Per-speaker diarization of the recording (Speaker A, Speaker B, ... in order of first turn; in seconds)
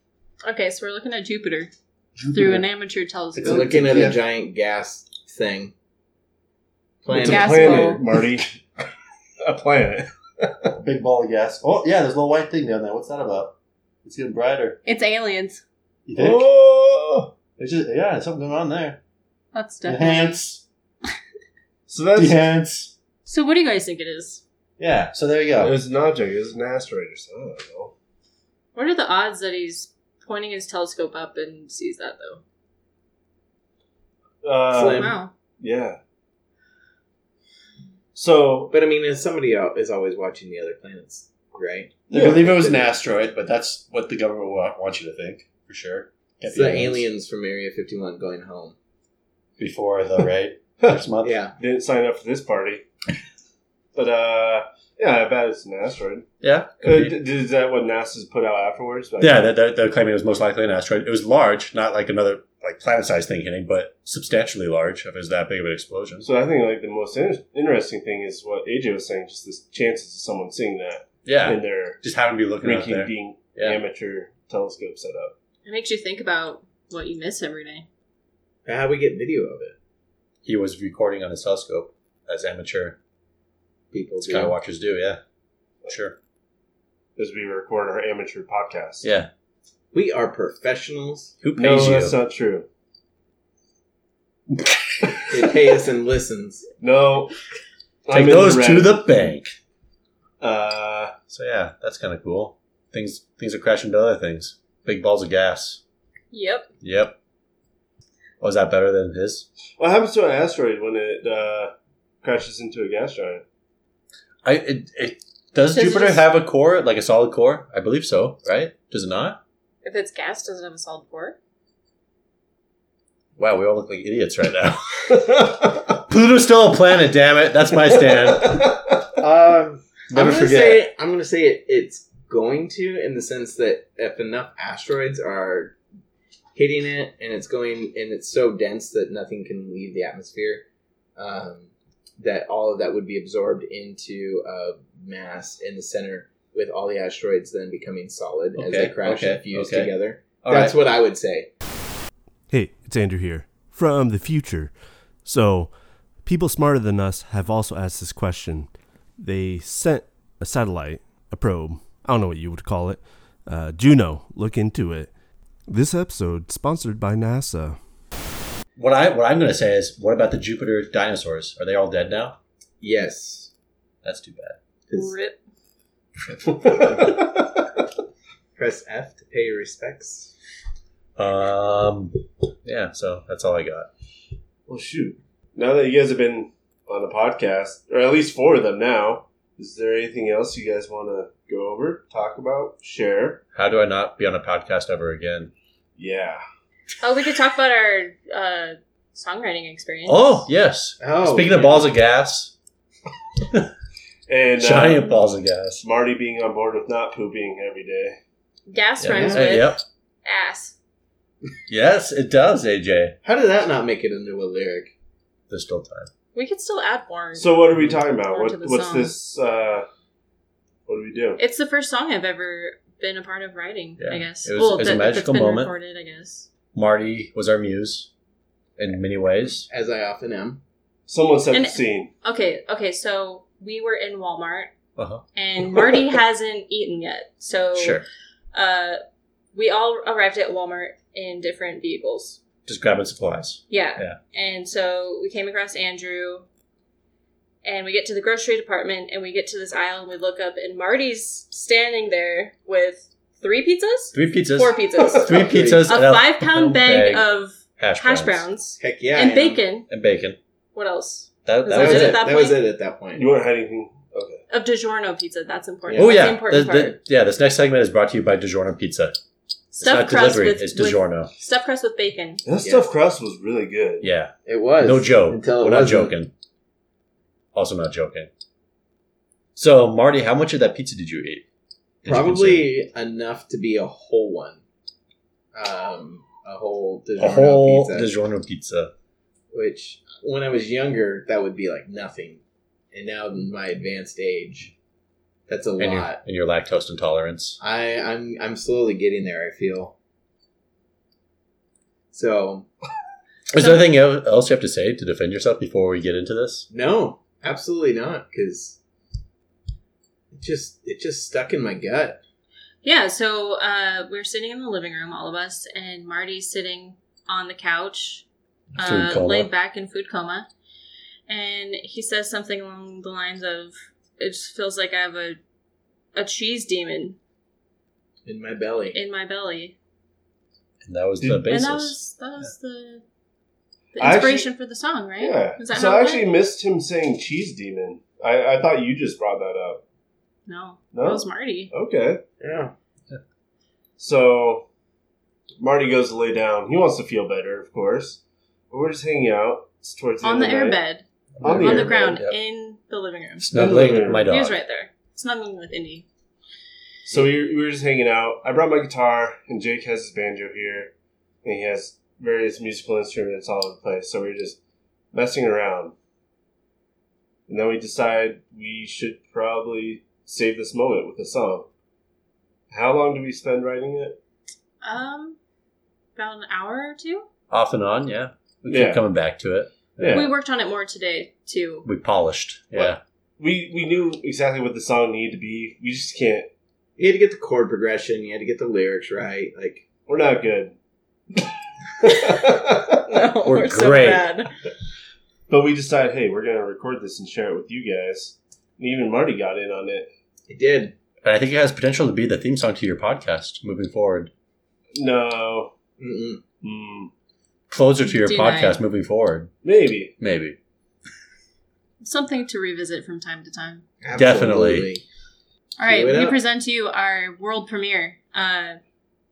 Speaker A: 0.5-1.7, 2.3-4.2, 7.1-8.0, 14.8-15.6, 19.5-20.3, 23.2-24.4, 28.8-32.4, 34.9-35.3, 75.7-77.8, 106.3-106.7, 115.7-116.2, 119.8-121.4, 174.9-175.4, 197.0-200.5, 208.7-210.7, 216.3-219.1, 221.4-226.5, 231.5-234.7, 235.3-238.0, 238.5-239.0, 239.5-242.4, 243.7-246.5, 247.6-259.9, 260.7-262.6, 264.5-267.0, 269.7-272.4, 303.5-303.9, 312.8-318.2, 318.8-320.5, 321.3-325.4, 326.1-327.2, 328.9-329.8, 331.5-333.0, 333.9-336.3, 340.5-341.7, 350.2-353.5, 354.2-356.0, 374.8-375.4, 376.2-377.3, 380.1-381.9, 392.1-392.4, 393.1-394.5, 408.1-408.8, 412.0-413.9, 415.8-418.8
Speaker B: 2.2-2.6, 3.4-4.2, 10.8-14.8, 16.1-16.5, 17.6-19.0, 19.9-20.6, 22.2-22.9, 24.8-25.8, 42.1-47.0, 49.6-51.4, 56.4-57.2, 59.2-66.3, 71.2-73.8, 80.5-83.0, 84.2-85.2, 85.9-86.2, 89.0-89.3, 91.4-92.2, 98.1-99.5, 101.3-105.8, 106.8-107.2, 108.4-109.5, 114.5-119.4, 123.4-128.8, 130.1-130.8, 148.6-150.8, 168.8-172.4, 174.0-174.6, 176.6-177.0, 181.2-183.9, 193.6-195.5, 200.1-202.5, 204.6-205.8, 209.0-209.8, 211.7-213.2, 215.5-216.1, 224.0-225.7, 226.7-228.1, 228.8-229.7, 235.0-235.2, 237.8-238.1, 242.7-244.2, 254.1-258.5, 259.9-260.4, 261.4-262.2, 266.0-269.1, 269.8-271.3, 274.0-276.3, 277.5-278.3, 279.6-281.4, 282.0-282.7, 287.2-288.9, 295.8-297.6, 303.5-306.7, 318.8-319.5, 330.9-332.5, 351.4-352.4, 353.4-354.6, 377.5-380.2, 381.9-383.0, 393.4-394.3, 401.2-404.3, 407.7-409.5, 410.2-410.6, 414.1-414.9
Speaker C: 3.4-5.7, 7.0-8.0, 34.7-35.2, 38.7-41.9, 46.5-48.8, 51.2-51.5, 78.7-79.8, 83.9-84.5, 89.9-91.3, 95.3-96.7, 129.2-135.8, 136.6-140.7, 141.2-151.5, 172.8-173.5, 174.9-175.2, 178.6-180.3, 201.0-201.9, 209.1-209.5, 213.2-214.9, 229.7-230.6, 255.5-255.8, 258.8-259.6, 261.7-263.3, 265.9-266.2, 272.6-272.9, 274.5-276.2, 282.1-284.6, 285.5-288.1, 289.5-294.7, 295.5-296.2, 297.6-299.9, 302.1-302.7, 306.7-308.8, 310.3-312.2, 328.3-329.0, 342.4-342.7, 387.0-389.9, 400.5-400.9, 406.0-406.4, 414.0-415.1, 415.9-416.4
Speaker D: 7.2-8.6, 9.4-10.7, 16.2-17.3, 21.9-22.4, 25.6-27.9, 34.4-36.0, 38.1-38.7, 42.1-42.8, 51.6-52.9, 54.0-56.3, 56.8-59.5, 66.2-72.0, 72.6-75.3, 87.2-89.1, 91.6-92.7, 96.8-97.3, 98.1-99.0, 100.4-101.1, 109.8-113.5, 128.1-129.0, 176.7-177.1, 184.7-193.4, 196.0-196.4, 204.3-205.2, 205.8-208.2, 217.3-219.9, 220.9-221.4, 231.1-232.1, 263.1-264.4, 272.4-274.1, 334.0-334.5, 335.2-339.8, 340.9-342.2, 344.0-344.7, 345.6-350.8, 351.4-352.2, 353.5-354.3, 357.1-360.9, 361.4-364.6, 365.1-365.9, 367.5-371.7, 372.7-374.2, 378.7-379.0, 380.0-380.3, 382.8-386.5, 390.1-390.8, 392.0-393.0, 395.5-400.1, 404.9-405.7, 406.6-407.1, 409.6-410.1
Speaker E: 152.5-165.1, 165.7-167.8